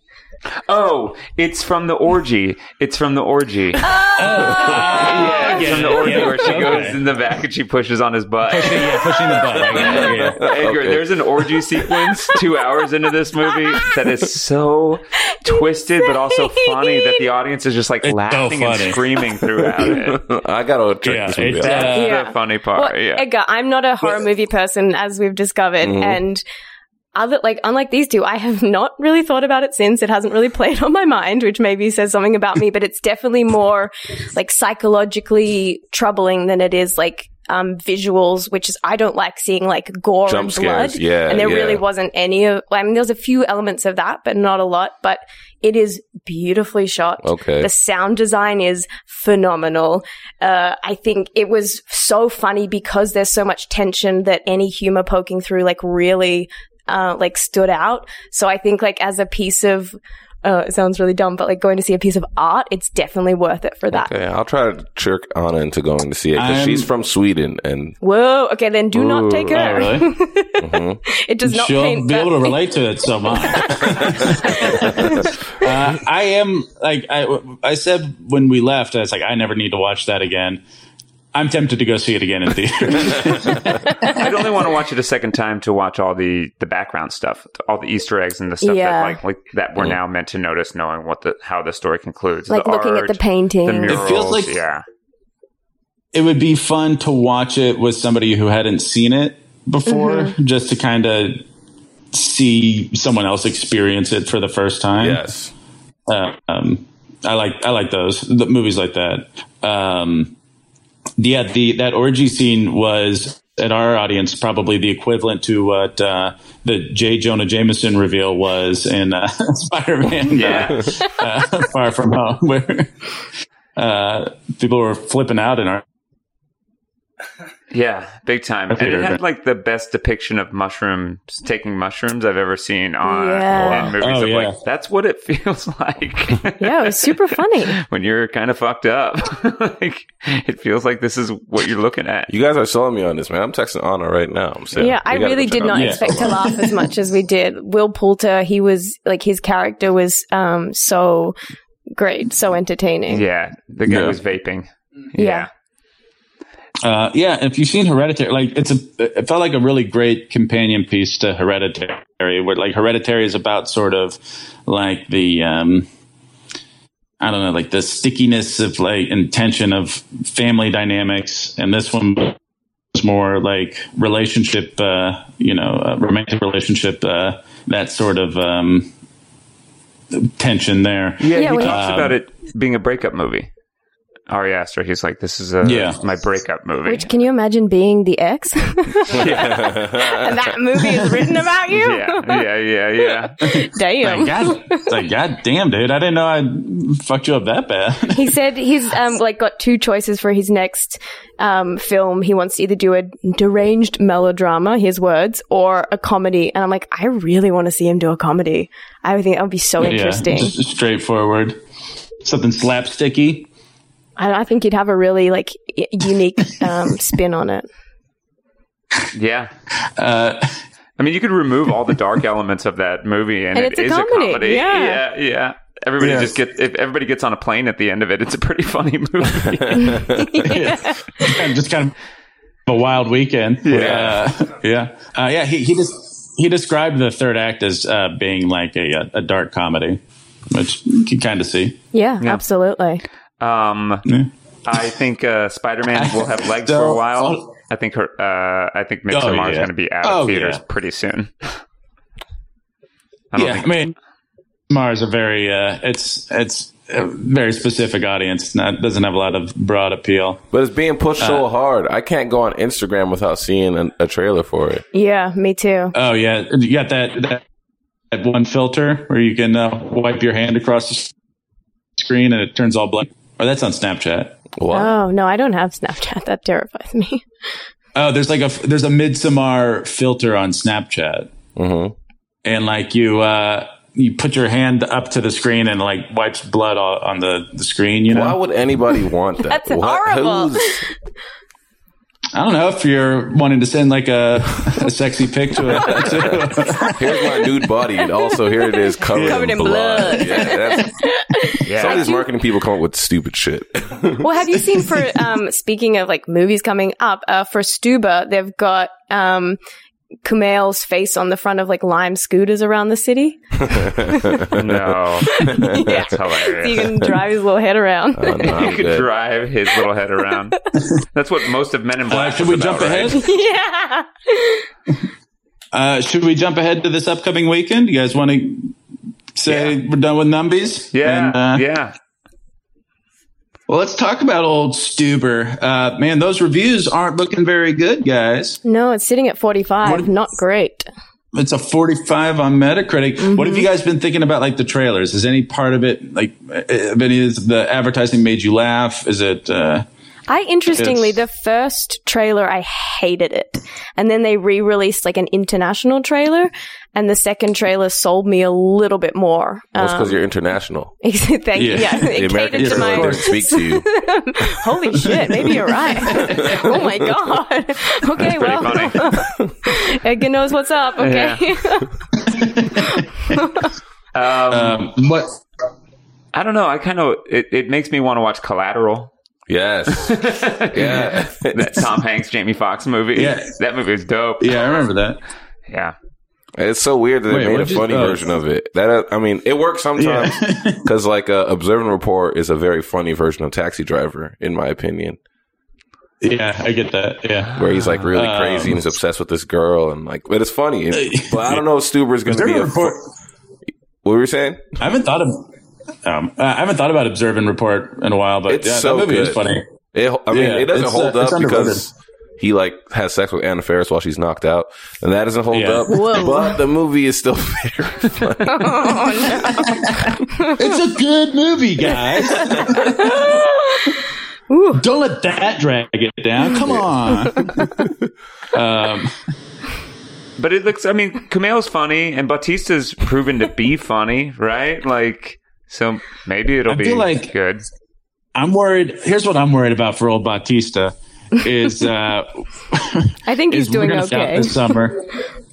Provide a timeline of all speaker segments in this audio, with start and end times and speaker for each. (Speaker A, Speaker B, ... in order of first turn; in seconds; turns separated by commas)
Speaker A: 0.7-20.2, Speaker B: 3.8-6.2, Speaker C: 4.2-7.0, Speaker C: 8.5-10.4, Speaker D: 9.8-11.2, Speaker B: 16.1-17.2, Speaker C: 18.0-19.0, Speaker D: 19.8-21.9, Speaker C: 21.1-22.1, Speaker A: 21.6-23.2, Speaker B: 21.8-26.4, Speaker D: 25.8-26.2, Speaker B: 27.1-64.1, Speaker D: 40.3-41.8, Speaker D: 47.2-47.7, Speaker D: 63.9-68.0, Speaker C: 66.4-66.9, Speaker B: 68.0-72.6, Speaker A: 69.0-69.6, Speaker C: 69.5-70.1, Speaker D: 70.6-71.0, Speaker C: 71.5-80.6, Speaker B: 73.3-75.3, Speaker C: 81.3-84.4, Speaker A: 84.0-94.8, Speaker B: 88.6-89.2, Speaker B: 92.5-94.1, Speaker C: 93.9-94.5, Speaker C: 96.1-101.4, Speaker B: 99.9-100.3, Speaker C: 102.1-105.2, Speaker D: 105.0-105.5, Speaker C: 106.1-110.3, Speaker C: 111.2-122.9, Speaker A: 120.3-121.0, Speaker C: 123.8-125.8, Speaker A: 127.7-142.3, Speaker C: 128.7-129.2, Speaker B: 133.0-133.9, Speaker D: 133.5-133.9, Speaker C: 134.0-134.6, Speaker B: 136.6-137.8, Speaker D: 142.3-146.4, Speaker B: 144.8-151.4, Speaker C: 145.7-146.8, Speaker B: 151.9-153.2, Speaker A: 153.1-155.5, Speaker C: 153.9-154.2, Speaker B: 155.2-155.5, Speaker C: 156.8-165.9, Speaker C: 167.2-172.4, Speaker C: 172.9-178.9, Speaker C: 180.1-182.2, Speaker A: 181.2-183.5, Speaker B: 181.3-181.8, Speaker A: 184.3-187.1, Speaker C: 185.6-186.0, Speaker B: 186.8-192.4, Speaker A: 189.1-189.8, Speaker D: 189.1-190.3, Speaker A: 191.7-193.3, Speaker B: 193.2-194.9, Speaker C: 193.4-198.3, Speaker B: 198.1-210.6, Speaker C: 209.8-211.6, Speaker C: 212.2-213.5, Speaker B: 214.2-217.7, Speaker A: 219.1-219.5, Speaker C: 220.0-220.6, Speaker A: 221.0-230.4, Speaker B: 223.6-225.0, Speaker C: 226.0-226.3, Speaker B: 229.7-231.5, Speaker D: 229.8-230.3, Speaker C: 230.5-231.9, Speaker C: 232.7-241.8, Speaker A: 233.6-234.2, Speaker D: 233.7-234.1, Speaker B: 241.9-243.0, Speaker A: 243.4-244.1, Speaker A: 244.7-251.6, Speaker C: 245.9-247.4, Speaker C: 249.1-250.6, Speaker A: 253.3-253.9, Speaker C: 253.4-253.9, Speaker C: 254.7-260.4, Speaker D: 260.5-264.8, Speaker C: 261.2-261.4, Speaker B: 264.9-265.9, Speaker C: 265.9-267.4, Speaker C: 268.1-271.1, Speaker C: 272.0-274.4, Speaker D: 274.6-274.9, Speaker B: 274.7-277.2, Speaker C: 277.9-281.3, Speaker D: 281.6-281.9, Speaker C: 282.4-288.4, Speaker D: 288.1-290.8, Speaker B: 289.5-290.9, Speaker C: 292.3-297.0, Speaker D: 295.7-300.9, Speaker B: 297.1-297.4, Speaker B: 298.2-302.3, Speaker C: 299.1-299.5, Speaker A: 301.6-302.1, Speaker D: 301.7-304.3, Speaker B: 304.2-309.6, Speaker B: 310.2-314.5, Speaker D: 313.7-315.9, Speaker A: 314.5-316.9, Speaker B: 315.2-318.7, Speaker D: 318.1-319.1, Speaker A: 318.4-323.2, Speaker C: 322.1-323.3, Speaker B: 323.1-324.7, Speaker C: 325.7-328.7, Speaker C: 329.4-331.6, Speaker A: 329.5-329.8, Speaker A: 330.9-331.9, Speaker C: 333.7-338.6, Speaker B: 338.6-340.9, Speaker C: 339.8-340.1, Speaker C: 341.3-349.9, Speaker B: 343.2-343.7, Speaker B: 350.3-360.2, Speaker C: 350.8-351.1, Speaker D: 359.7-360.9, Speaker B: 361.0-371.9, Speaker C: 361.6-363.3, Speaker D: 361.9-363.9, Speaker C: 365.0-365.5, Speaker D: 366.1-366.9, Speaker A: 368.2-369.2, Speaker A: 371.0-371.4, Speaker C: 372.2-373.4, Speaker B: 373.3-373.7, Speaker A: 374.1-374.9, Speaker C: 374.5-375.4, Speaker A: 376.3-379.1, Speaker D: 379.5-380.2, Speaker A: 379.9-384.8, Speaker D: 380.7-381.8, Speaker C: 383.1-383.5, Speaker C: 384.4-385.2, Speaker A: 385.7-385.9, Speaker D: 386.6-395.2, Speaker C: 387.3-388.2, Speaker C: 390.0-390.9, Speaker C: 396.2-398.8, Speaker D: 397.6-403.0, Speaker C: 400.9-401.6, Speaker C: 402.3-403.1, Speaker D: 404.0-404.8, Speaker C: 404.8-405.5, Speaker C: 406.0-409.7, Speaker D: 408.5-419.6, Speaker C: 410.3-411.9, Speaker C: 415.5-415.9, Speaker B: 415.9-416.6, Speaker B: 418.4-419.8, Speaker C: 419.3-423.4, Speaker B: 420.4-420.6, Speaker B: 422.4-424.0, Speaker B: 424.5-424.8, Speaker C: 424.8-427.9, Speaker D: 426.6-426.9, Speaker C: 428.5-429.1, Speaker A: 430.4-437.7, Speaker C: 436.7-437.3, Speaker C: 438.4-445.1, Speaker B: 443.2-444.7